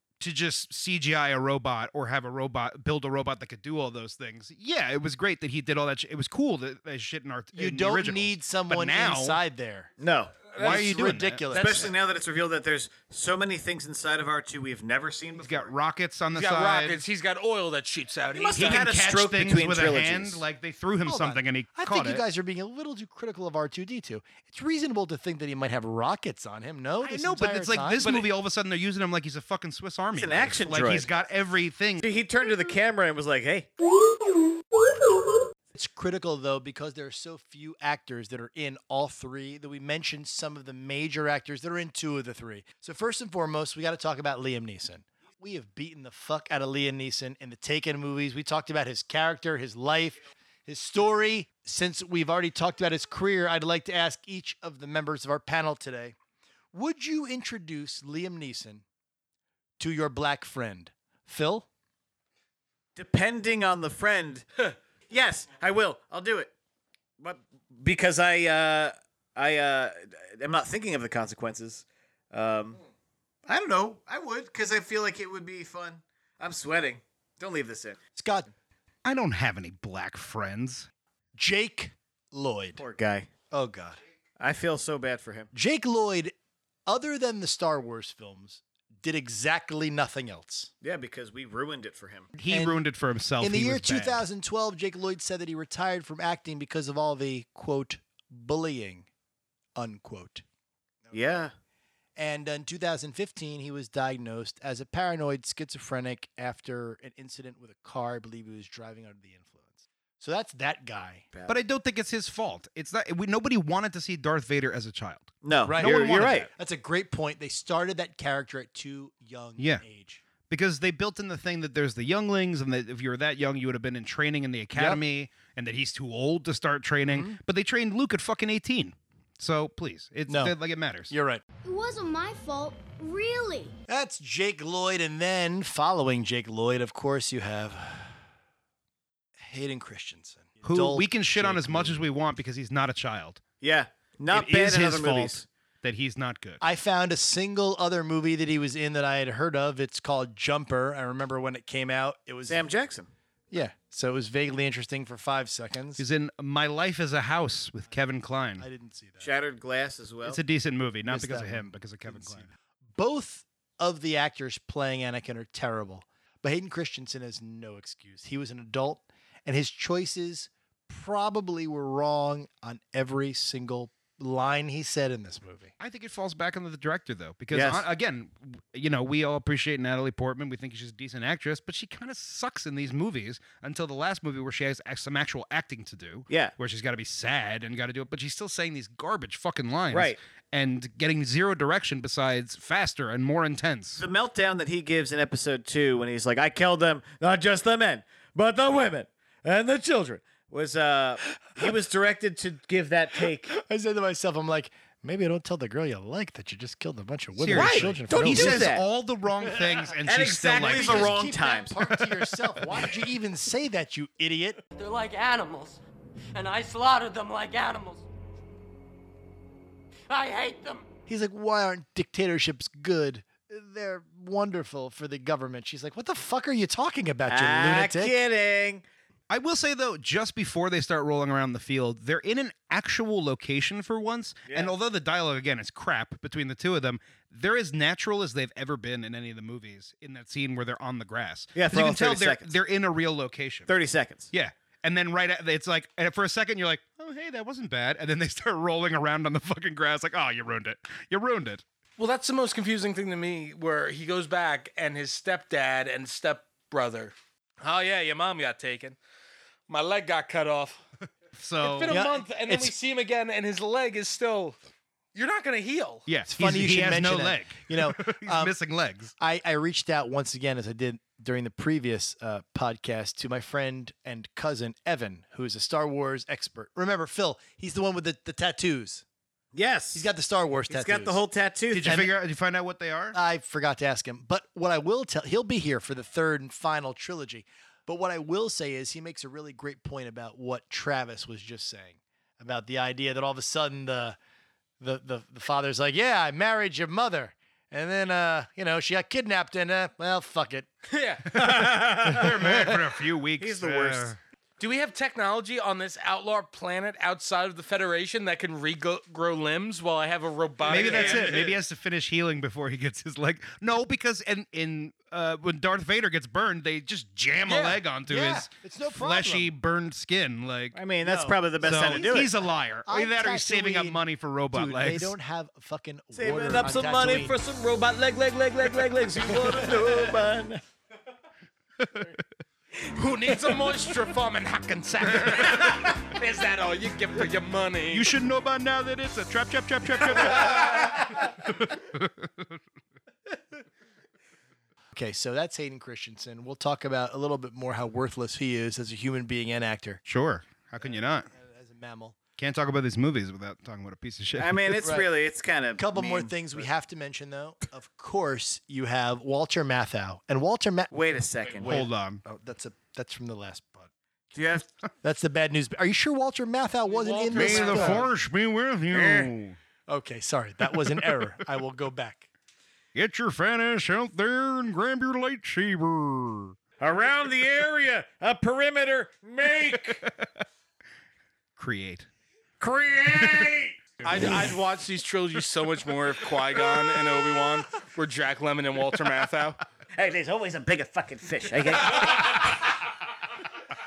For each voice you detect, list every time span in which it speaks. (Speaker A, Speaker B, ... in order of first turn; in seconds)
Speaker A: 0.2-9.4, 10.5-11.7, 15.4-17.1, 18.5-22.2, 27.0-32.0, 79.0-80.9, 92.3-94.2, 111.5-116.5, 119.6-119.8, 120.5-131.1, 140.6-143.4, 144.3-146.6, 156.0-158.7, 160.2-162.5, 175.8-194.0, 207.3-211.3, 211.9-212.8, 229.3-243.7, 244.3-251.6, 261.3-262.0, 266.1-269.1, 281.7-283.2, 301.4-304.2, 310.7-320.8, 321.6-325.1, 331.8-332.1, 335.1-335.7, 337.9-342.6, 350.1-351.3, 352.4-354.9, 361.6-362.2, 367.3-369.6, 370.6-371.3, 372.9-376.6, 379.7-380.3, 381.6-382.1, 383.1-384.6, 386.6-387.1
Speaker B: 7.5-9.9, 10.6-11.8, 21.0-28.3, 35.7-56.1, 56.7-58.8, 59.8-61.7, 78.1-78.5, 81.3-82.8, 83.5-84.0, 85.5-86.3, 86.8-90.7, 92.5-92.8, 93.4-99.1, 99.8-100.4, 102.2-111.2, 115.7-120.2, 124.7-125.0, 127.0-127.4, 130.3-130.5, 131.1-131.4, 133.9-138.2, 139.4-142.0, 146.6-152.7, 153.5-156.0, 158.6-159.3, 161.1-175.7, 203.5-208.7, 210.6-214.6, 221.1-228.2, 261.9-262.7, 266.3-268.5, 269.2-279.0, 279.9-281.2, 281.8-282.1, 283.1-294.2, 294.8-300.7, 310.7-311.4, 318.0-319.5, 321.0-322.3, 322.9-327.3, 344.9-350.0, 350.8-352.2, 354.8-355.1, 355.8-360.9, 361.6-363.9, 365.0-368.0, 369.9-372.3
Speaker C: 10.0-10.5, 11.5-15.7, 18.3-20.4, 30.1-31.1, 32.0-33.7, 63.0-64.4, 65.1-66.5, 67.2-72.8, 73.5-78.0, 82.7-83.3, 84.4-85.5, 90.8-92.3, 101.1-101.5, 111.3-111.6, 115.4-116.5, 143.6-145.4, 152.4-153.1, 159.2-160.4, 177.5-177.8, 186.3-186.5, 189.9-190.2, 194.0-203.5, 207.5-208.8, 210.0-211.8, 227.3-228.8, 234.5-234.8, 241.5-242.5, 243.7-244.3, 279.5-280.1, 280.7-282.0, 301.3-302.4, 303.4-304.1, 320.7-322.3, 326.1-330.6, 354.4-356.7, 360.9-361.8, 364.3-364.7, 368.9-369.3, 376.8-380.0, 382.6-383.7, 389.9-392.4
Speaker D: 10.6-10.8, 11.5-11.9, 16.3-18.9, 252.0-258.9, 259.7-260.8, 261.6-264.6, 265.1-266.1, 300.9-301.2, 304.6-311.6, 317.4-317.8, 332.9-338.1, 366.9-368.1, 384.0-389.6
Speaker E: 131.6-133.7
Speaker F: 214.8-215.8, 216.3-218.1, 220.1-220.8